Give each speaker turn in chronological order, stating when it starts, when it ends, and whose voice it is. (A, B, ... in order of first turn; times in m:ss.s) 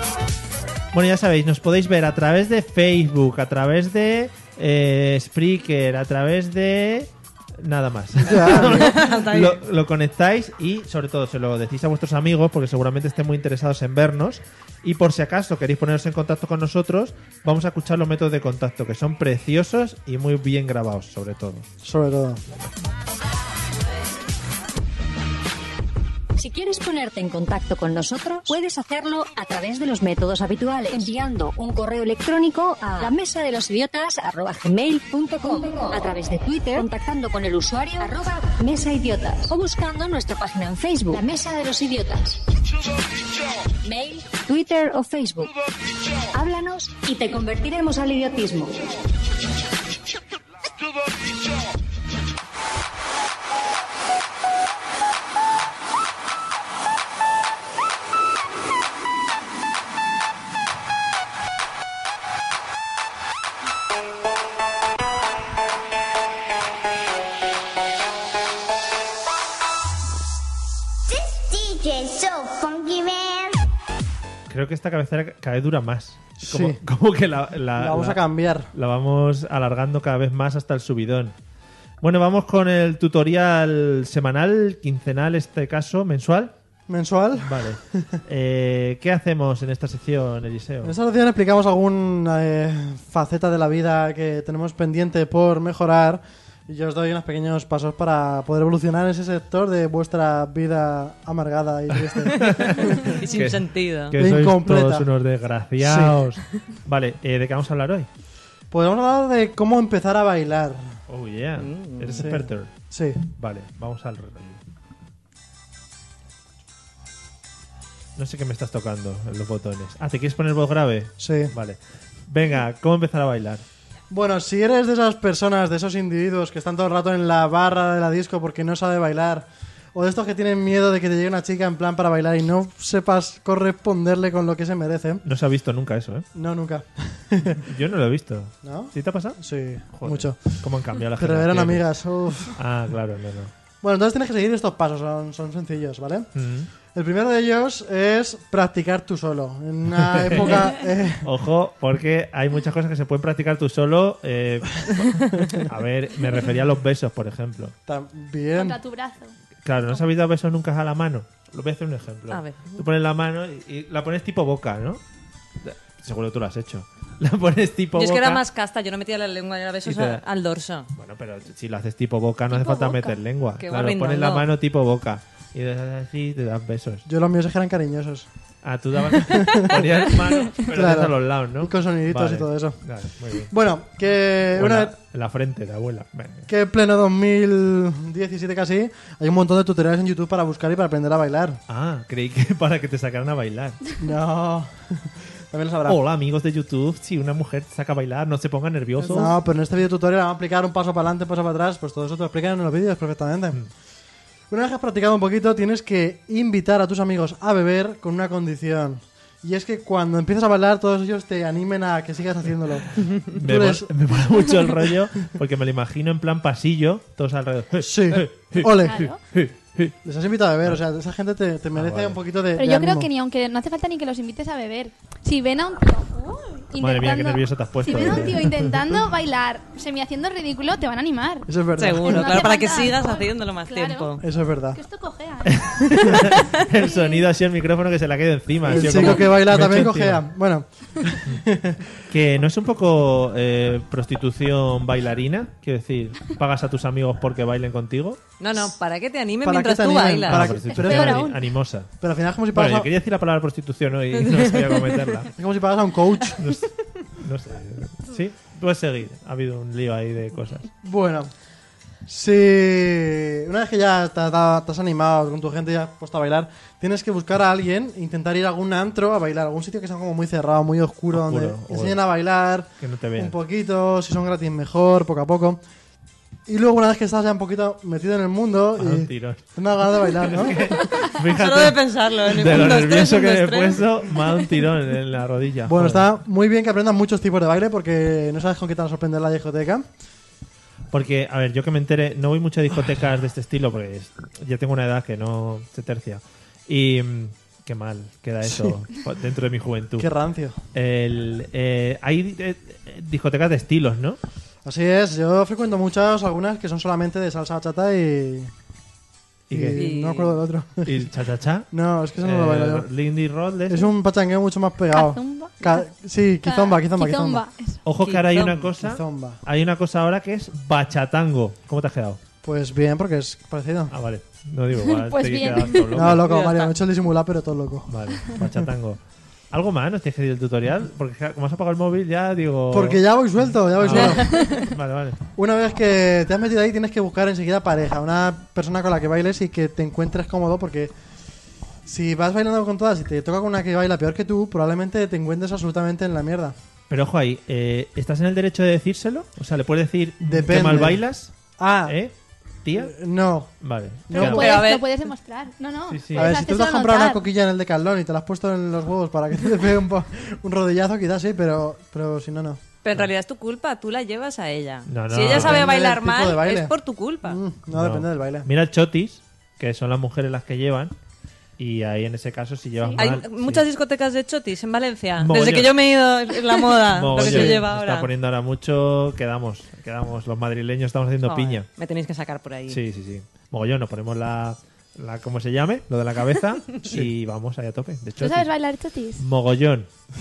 0:00.9-0:21.7 A
0:08.2-0:09.0 B
0:08.3-0:09.6 C
0:21.8-0:22.4 B
0:26.4-0:42.4 D
0:43.8-0:45.5 D
0:46.3-0:48.8 D
1:11.1-1:13.6 E
1:14.5-1:18.2 A
1:16.4-1:16.8 B
1:17.8-1:18.7 B
1:18.7-1:21.3 A
1:22.0-1:26.5 A
1:26.9-1:28.2 B
1:27.4-1:31.0 A
1:30.8-1:43.2 B
1:42.1-1:48.1 A
1:42.8-1:44.1 C
1:44.1-1:45.1 B
1:45.8-1:46.2 B
1:48.7-1:51.0 B
1:51.1-1:52.7 A
1:51.6-1:52.3 C
1:52.2-1:53.2 B
1:53.3-1:54.6 A
1:58.2-2:03.6 A
2:01.2-2:01.5 B
2:04.1-2:15.2 B
2:15.2-2:16.2 A
2:16.3-2:17.6 B
2:17.6-2:19.4 A
2:18.6-2:22.6 B
2:19.9-2:21.8 A
2:22.4-2:23.5 A
2:23.8-2:26.3 B
2:26.3-2:26.7 A
2:26.8-2:31.3 B
2:30.0-2:30.7 A
2:31.2-2:37.7 A
2:37.8-2:38.8 B
2:38.6-2:39.3 F
2:39.6-2:45.0 A
2:42.3-2:42.8 C
2:45.6-2:48.4 A
2:48.0-2:50.9 C
2:49.8-2:50.2 A
2:50.9-2:57.0 A
2:52.5-2:53.2 F
2:53.6-2:54.4 C
2:57.0-2:58.3 B
2:58.6-3:03.5 A
2:59.2-2:59.9 B
3:00.7-3:02.8 B
3:03.5-3:04.9 B
3:04.5-3:06.5 A
3:06.5-3:11.6 B
3:11.7-3:13.8 A
3:14.0-3:16.0 B
3:15.8-3:19.4 A
3:19.0-3:23.6 B
3:24.5-3:33.9 B
3:33.0-3:40.0 A
3:37.8-3:39.1 B
3:38.8-3:39.2 F
3:40.0-3:43.1 B
3:41.7-3:42.2 A
3:42.6-3:51.5 F
3:46.8-3:48.9 A
3:48.0-3:48.3 B
3:51.5-3:52.5 B
3:51.8-3:54.2 C
3:52.0-3:54.2 F
3:54.2-3:54.8 B
3:54.7-3:57.3 F
3:55.4-4:00.2 A
3:58.6-4:01.9 B
3:58.8-3:59.0 F
4:02.1-4:08.2 A
4:08.4-4:10.6 C
4:09.4-4:11.3 B
4:10.2-4:11.9 A
4:10.7-4:11.4 F
4:12.0-4:12.9 B
4:12.5-4:15.3 A
4:14.1-4:15.1 C
4:15.3-4:16.4 B
4:16.4-4:20.7 A
4:20.8-4:21.3 B
4:22.0-4:35.6 B
4:31.1-4:32.0 A
4:32.8-4:33.4 A
4:36.5-4:40.8 B
4:38.8-4:39.5 A
4:40.0-4:46.1 A
4:41.0-4:44.5 C
4:45.7-4:49.9 B
4:50.9-5:00.1 A
4:58.4-4:58.8 B
5:00.0-5:00.6 B
5:00.7-5:04.2 A
5:04.6-5:08.5 B
5:09.5-5:09.9 A
5:09.5-5:11.1 B
5:09.7-5:10.3 C
5:10.8-5:13.8 A
5:11.7-5:12.9 B
5:13.7-5:17.4 B
5:14.9-5:15.8 F
5:16.4-5:17.8 F
5:17.8-5:22.2 A
5:18.0-5:18.7 C
5:18.8-5:19.4 B
5:22.4-5:23.9 B
5:23.9-5:26.3 A
5:24.8-5:26.0 F
5:25.9-5:28.6 B
5:26.2-5:26.7 C
5:27.9-5:29.0 A
5:29.5-5:33.0 A
5:32.7-5:34.6 B
5:33.8-5:35.2 A
5:33.9-5:34.7 F
5:35.3-5:40.9 B
5:41.8-5:46.5 B
5:46.9-5:53.0 A
5:50.2-5:52.0 B
5:52.8-5:53.5 B
5:53.6-5:54.6 A
5:54.1-5:54.5 B
5:54.1-5:57.2 F
5:54.2-5:54.9 C
5:55.9-5:56.3 A
5:56.1-6:02.6 B
6:02.8-6:07.4 C
6:04.8-6:05.7 A
6:05.3-6:08.5 B
6:07.7-6:10.9 A
6:11.6-6:13.6 A
6:12.8-6:13.1 F
6:13.0-6:18.1 C
6:15.2-6:15.7 A
6:16.9-6:21.7 A
6:17.2-6:17.6 B
6:21.2-6:22.8 C
6:22.7-6:28.5 A
6:28.2-6:29.2 F
6:29.2-6:29.9 A